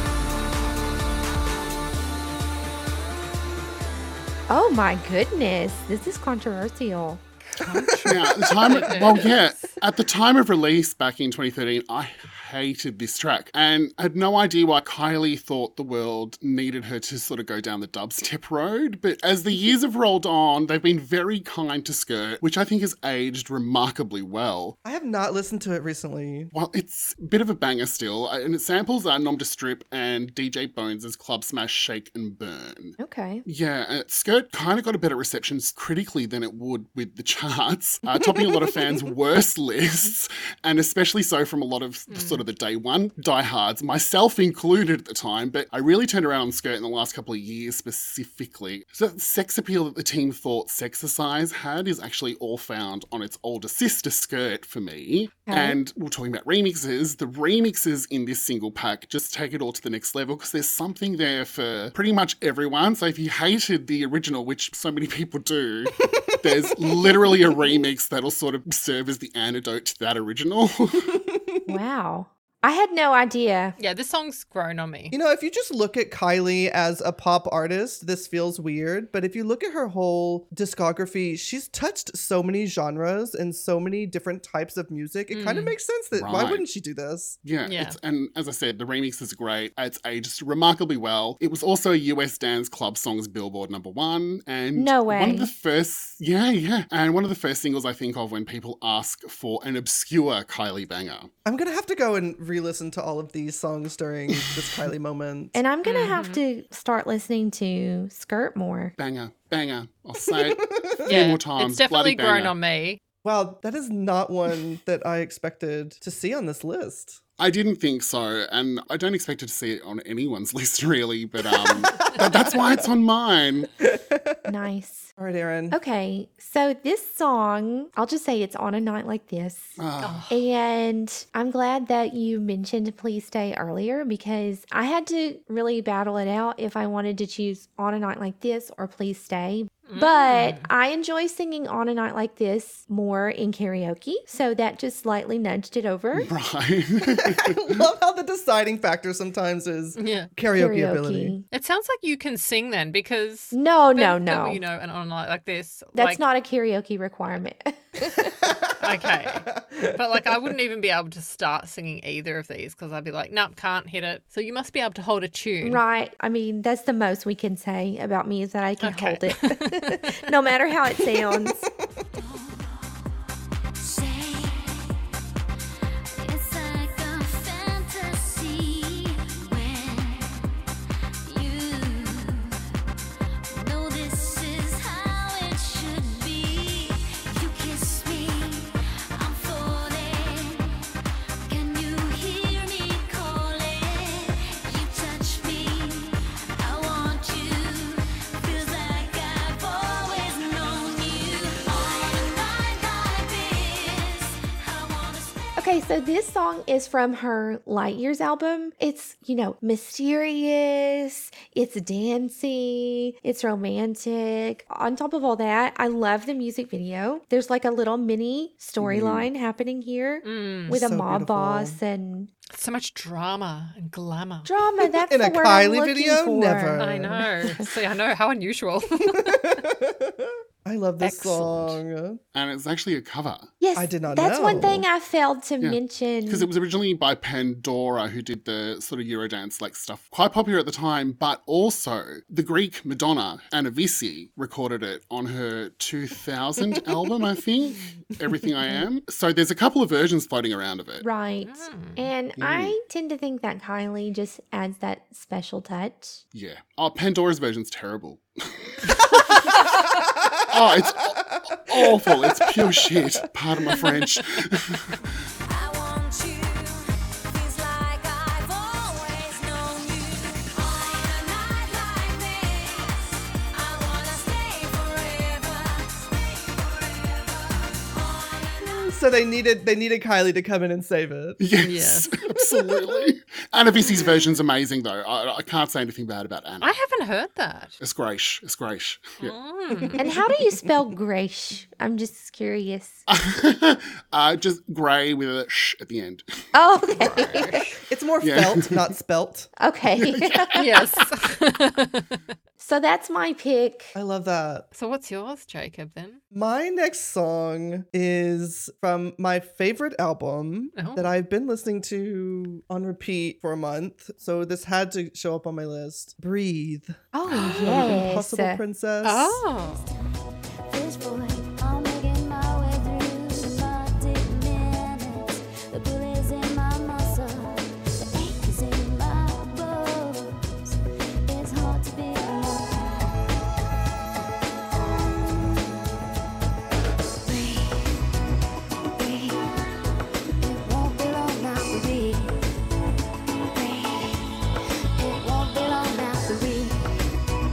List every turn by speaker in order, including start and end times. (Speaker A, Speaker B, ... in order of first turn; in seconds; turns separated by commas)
Speaker A: 4.5-7.2, Speaker B: 7.5-9.5, Speaker C: 8.0-24.7, Speaker D: 24.8-26.5, Speaker C: 26.5-71.2, Speaker A: 33.0-33.4, Speaker B: 42.1-42.4, Speaker A: 55.5-55.8, Speaker D: 66.4-67.8, Speaker A: 71.7-73.8, Speaker B: 73.8-75.1, Speaker D: 75.1-87.4, Speaker B: 85.3-85.8, Speaker C: 86.1-86.6, Speaker C: 87.4-101.3, Speaker B: 87.6-88.0, Speaker A: 94.7-95.5, Speaker D: 101.4-105.6, Speaker A: 105.5-108.9, Speaker B: 105.8-106.4, Speaker C: 109.0-112.5, Speaker D: 110.3-111.1, Speaker B: 111.0-113.0, Speaker D: 113.2-117.2, Speaker C: 117.4-123.7, Speaker D: 123.8-124.4, Speaker A: 124.5-125.1, Speaker D: 125.2-125.8, Speaker A: 125.7-129.8, Speaker C: 129.8-130.3, Speaker B: 130.0-130.4, Speaker A: 130.3-146.3, Speaker B: 139.9-140.7, Speaker C: 146.1-147.8, Speaker D: 147.0-151.3, Speaker B: 149.9-150.3, Speaker A: 150.5-151.4, Speaker B: 151.5-156.2, Speaker A: 153.5-154.6, Speaker A: 155.9-158.3, Speaker D: 158.2-160.0, Speaker B: 158.8-165.8, Speaker A: 165.6-171.6, Speaker B: 168.8-170.2, Speaker E: 172.1-173.0, Speaker E: 173.8-174.9, Speaker E: 176.2-180.5, Speaker E: 181.2-182.6, Speaker E: 183.5-190.9, Speaker E: 191.5-205.7, Speaker A: 205.6-222.3, Speaker C: 218.8-219.3, Speaker B: 220.2-220.8, Speaker D: 220.7-221.8, Speaker B: 222.5-224.5, Speaker A: 224.4-226.9, Speaker D: 225.1-227.3, Speaker B: 226.8-229.6, Speaker D: 229.0-232.2, Speaker B: 231.0-231.8, Speaker C: 232.3-233.5, Speaker A: 233.6-236.5, Speaker D: 233.8-234.8, Speaker C: 235.6-251.1, Speaker A: 251.0-256.2, Speaker B: 251.4-252.1, Speaker C: 252.4-252.8, Speaker C: 256.3-259.8, Speaker C: 260.5-265.1, Speaker D: 261.3-263.1, Speaker E: 265.4-278.9, Speaker D: 278.6-281.4, Speaker C: 281.4-286.8, Speaker B: 281.6-282.1, Speaker D: 282.4-283.0, Speaker B: 286.6-287.8, Speaker C: 287.8-289.3, Speaker B: 289.2-290.1, Speaker A: 290.0-293.0, Speaker C: 293.1-296.2, Speaker A: 296.5-297.7, Speaker B: 296.9-297.8, Speaker D: 297.9-299.5, Speaker C: 298.2-298.9, Speaker A: 299.6-300.8, Speaker C: 299.9-300.6, Speaker B: 300.5-302.2, Speaker A: 302.6-303.9, Speaker D: 303.9-304.7, Speaker B: 304.7-306.2, Speaker D: 306.3-319.4, Speaker B: 310.8-311.1, Speaker A: 317.1-318.6, Speaker C: 317.2-317.7, Speaker B: 319.0-319.9, Speaker E: 319.6-320.0, Speaker E: 320.6-330.7, Speaker E: 331.3-333.1, Speaker E: 334.7-335.7, Speaker E: 337.2-338.0, Speaker E: 338.9-339.6, Speaker E: 340.4-342.4, Speaker E: 343.5-344.4, Speaker E: 345.0-346.9